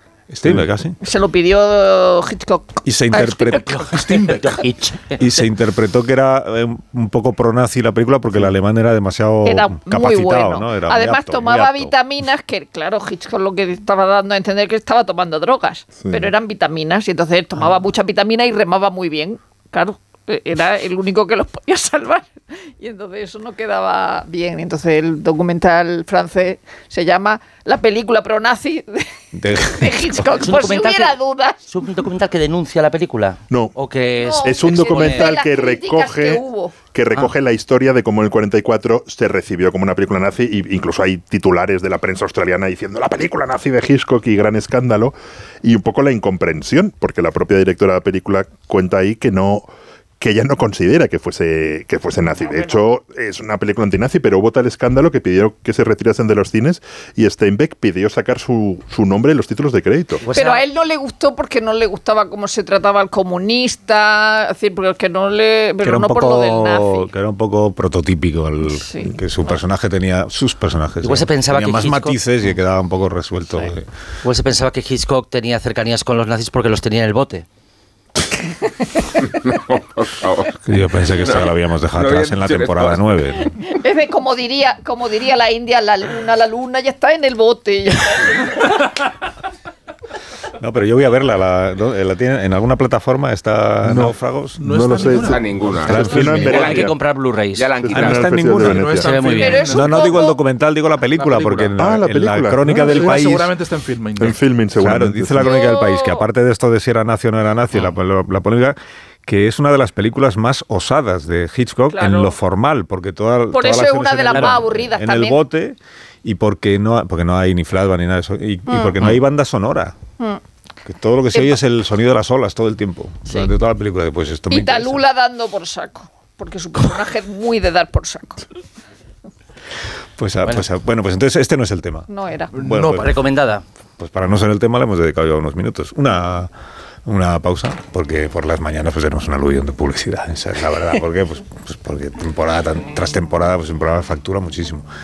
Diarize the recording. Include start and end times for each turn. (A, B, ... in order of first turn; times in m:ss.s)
0:00.3-0:01.0 A
0:01.0-0:04.0 B
0:02.8-0:04.0 A
0:03.9-0:04.6 C
0:04.4-0:05.2 D
0:05.2-0:11.9 A
0:09.4-0:31.6 B
0:16.0-0:16.3 E
0:29.3-0:30.3 A
0:30.4-0:35.3 D
0:34.2-0:36.8 B
0:34.4-0:49.7 E
0:50.2-1:00.2 E
1:00.2-1:00.6 D
1:00.3-1:07.1 B
1:05.8-1:13.9 A
1:08.7-1:09.2 B
1:11.0-1:12.2 D
1:14.2-1:17.4 D
1:19.2-1:20.6 F
1:20.6-1:23.5 A
1:21.2-1:23.1 F
1:23.6-1:28.8 B
1:30.6-1:34.6 A
1:33.8-1:37.0 E
1:34.6-1:35.8 C
1:35.3-1:36.9 F
1:35.8-1:36.7 A
1:36.2-1:37.8 D
1:37.6-1:38.4 F
1:37.8-1:39.1 E
1:37.9-1:39.0 A
1:38.6-1:40.1 C
1:39.0-1:39.8 D
1:39.3-1:40.4 B
1:39.6-1:43.5 A
1:41.2-1:41.8 C
1:41.8-1:43.3 E
1:42.6-1:44.4 C
1:44.2-1:45.5 E
1:44.8-2:00.0 A
1:45.4-1:46.2 B
1:51.9-1:52.3 B
1:53.5-1:55.4 B
1:58.7-1:58.9 B
2:00.8-2:05.0 A
2:04.5-2:08.4 B
2:10.2-2:13.1 A
2:12.1-2:12.5 B
2:12.6-2:13.1 C
2:12.9-2:13.6 D
2:14.0-2:16.5 A
2:17.0-2:24.9 A